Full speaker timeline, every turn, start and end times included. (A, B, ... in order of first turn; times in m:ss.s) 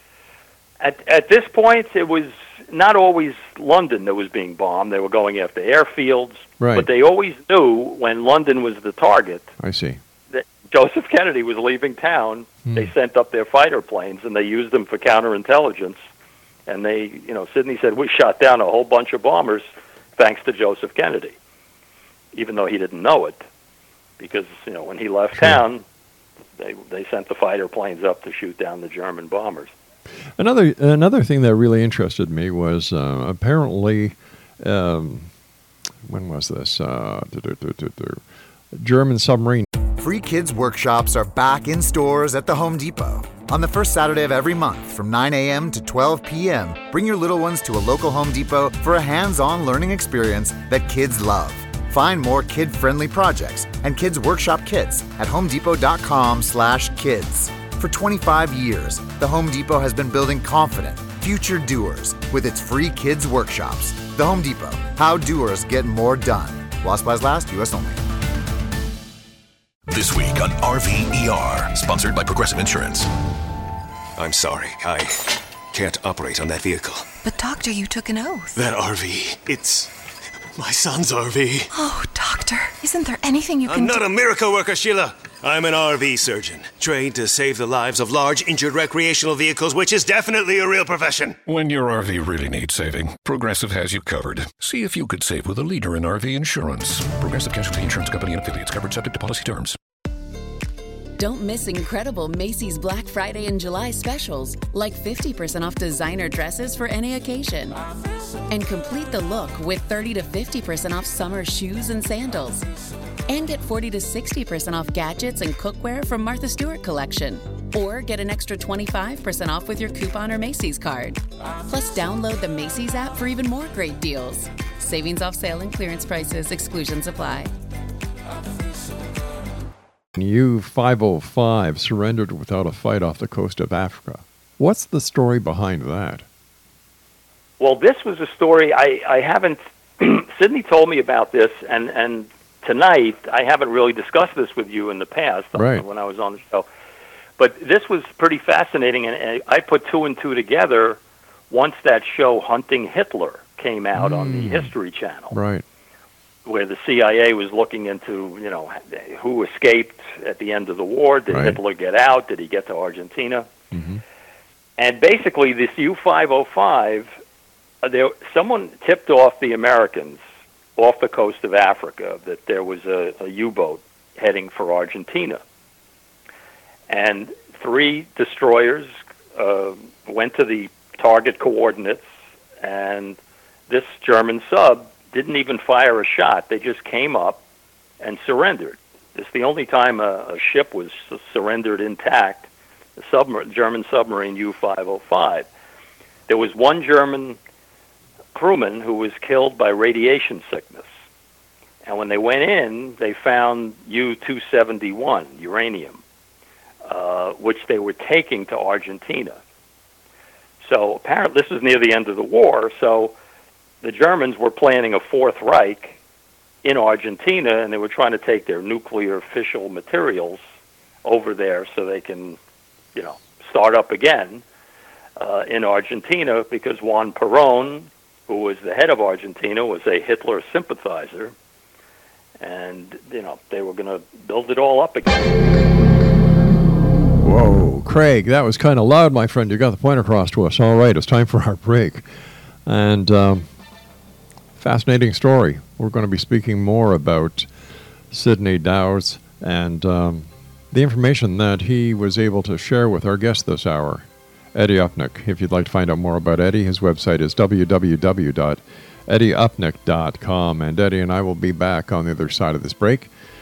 0:00.8-0:09.5 A
0:06.6-0:06.9 B
0:09.6-0:10.0 B
0:10.3-0:16.0 A
0:16.7-0:19.7 A
0:20.2-0:21.4 A
0:22.3-0:23.4 A
0:24.2-0:25.8 A
0:26.6-0:29.7 A
0:30.4-0:35.3 B
0:36.0-0:39.7 B
0:40.0-1:08.0 C
1:09.9-1:13.1 D
1:14.2-1:15.1 E
1:15.7-1:17.1 E
1:17.2-1:18.6 F
1:18.5-1:19.9 E
1:20.6-1:21.7 E
1:21.7-1:24.0 F
1:23.6-1:31.4 E
1:31.5-1:39.8 G
1:41.2-1:47.8 H
1:48.5-1:52.6 H
1:53.3-2:07.5 H
2:10.1-2:16.3 B
2:17.6-2:26.7 A
2:25.5-2:25.9 B
2:27.4-2:35.4 A
2:34.0-2:34.7 B
2:35.3-2:35.6 B
2:36.4-2:43.5 A
2:41.3-2:41.6 B
2:43.7-2:44.0 B
2:44.8-2:47.1 A
2:47.8-2:50.2 A
2:50.8-2:55.4 A
2:56.9-3:02.0 A
3:02.6-3:03.2 A
3:03.7-3:07.4 A
3:08.0-3:15.5 A
3:16.3-3:17.4 A
3:18.4-3:20.9 A
3:21.8-3:26.0 A
3:26.9-3:29.4 A
3:30.6-3:33.1 A
3:33.8-3:36.0 A
3:36.6-3:40.4 A
3:41.0-3:42.4 A
3:43.0-3:44.4 A
3:45.2-3:51.3 A
3:52.4-3:55.4 A
3:57.2-4:02.1 B
4:02.7-4:03.5 B
4:04.6-4:07.5 B
4:08.1-4:23.1 B